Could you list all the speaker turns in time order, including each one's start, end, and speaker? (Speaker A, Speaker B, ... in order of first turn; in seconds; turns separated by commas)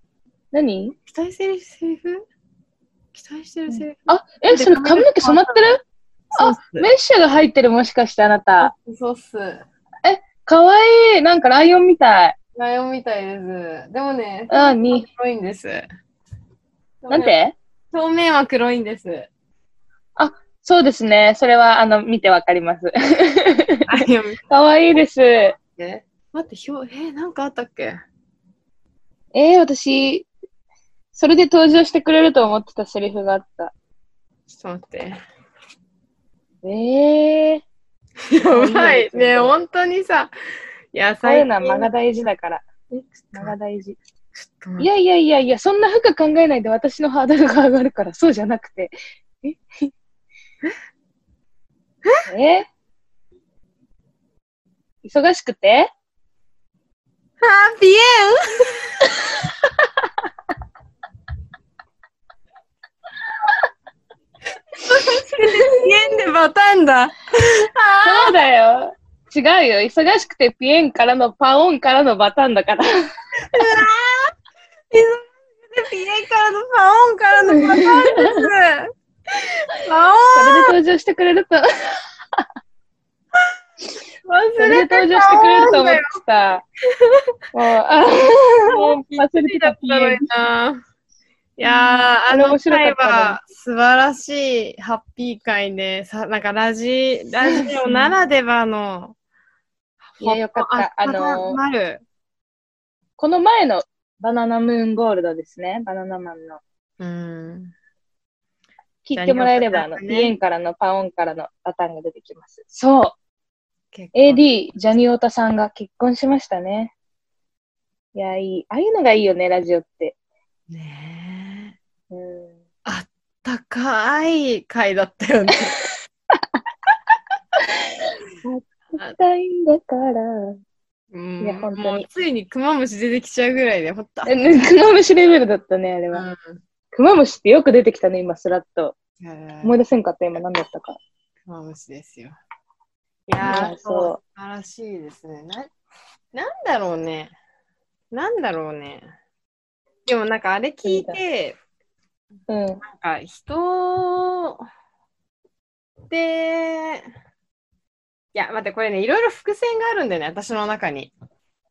Speaker A: 0.5-0.9, Speaker B: 1.1-2.2, Speaker B: 3.1-5.8, Speaker A: 3.7-5.8, Speaker B: 6.3-6.9, Speaker A: 6.3-8.7, Speaker B: 8.6-9.6, Speaker A: 10.0-12.4, Speaker B: 12.6-15.8, Speaker A: 14.5-15.1, Speaker B: 17.0-17.3, Speaker A: 17.1-17.6, Speaker B: 17.9-19.3, Speaker A: 20.1-25.6, Speaker B: 23.9-24.4, Speaker B: 25.8-28.0, Speaker A: 29.3-30.3, Speaker A: 31.1-33.7, Speaker B: 34.5-35.2, Speaker A: 36.6-37.6, Speaker B: 38.3-40.3, Speaker A: 38.5-39.5, Speaker B: 40.9-41.9, Speaker A: 41.2-42.6, Speaker B: 42.9-43.5, Speaker A: 43.3-44.0, Speaker B: 44.4-44.9, Speaker A: 44.8-49.9, Speaker A: 52.2-52.7, Speaker A: 55.0-55.9, Speaker B: 57.4-59.1, Speaker B: 64.8-68.4, Speaker A: 65.1-65.8, Speaker A: 68.0-73.1, Speaker B: 73.5-74.3, Speaker B: 74.9-80.8, Speaker A: 77.5-78.5, Speaker A: 80.3-82.5, Speaker B: 84.2-86.2, Speaker A: 84.6-86.6, Speaker B: 86.9-87.2, Speaker A: 87.5-90.2, Speaker B: 88.6-90.8, Speaker B: 91.6-99.1, Speaker A: 91.6-93.4, Speaker A: 97.4-98.1, Speaker B: 100.0-102.0, Speaker A: 100.2-101.6, Speaker A: 103.2-106.6, Speaker B: 107.0-107.7, Speaker A: 109.0-113.1, Speaker B: 109.1-110.3, Speaker B: 113.9-114.4, Speaker A: 114.1-116.9, Speaker A: 118.1-120.1, Speaker B: 120.7-121.8, Speaker A: 122.1-122.5, Speaker B: 122.8-125.9, Speaker A: 128.4-130.6, Speaker B: 131.1-134.6, Speaker A: 131.4-132.1, Speaker A: 134.3-136.2, Speaker B: 136.1-136.6, Speaker A: 136.9-138.9, Speaker B: 139.2-139.7, Speaker A: 139.6-141.0, Speaker B: 141.5-142.4, Speaker B: 143.3-145.7, Speaker A: 143.4-144.2, Speaker B: 146.3-147.3, Speaker B: 148.1-149.1, Speaker B: 150.1-151.6, Speaker A: 150.8-151.2, Speaker A: 152.5-152.8, Speaker B: 152.8-154.6, Speaker B: 156.1-157.1, Speaker B: 158.3-161.1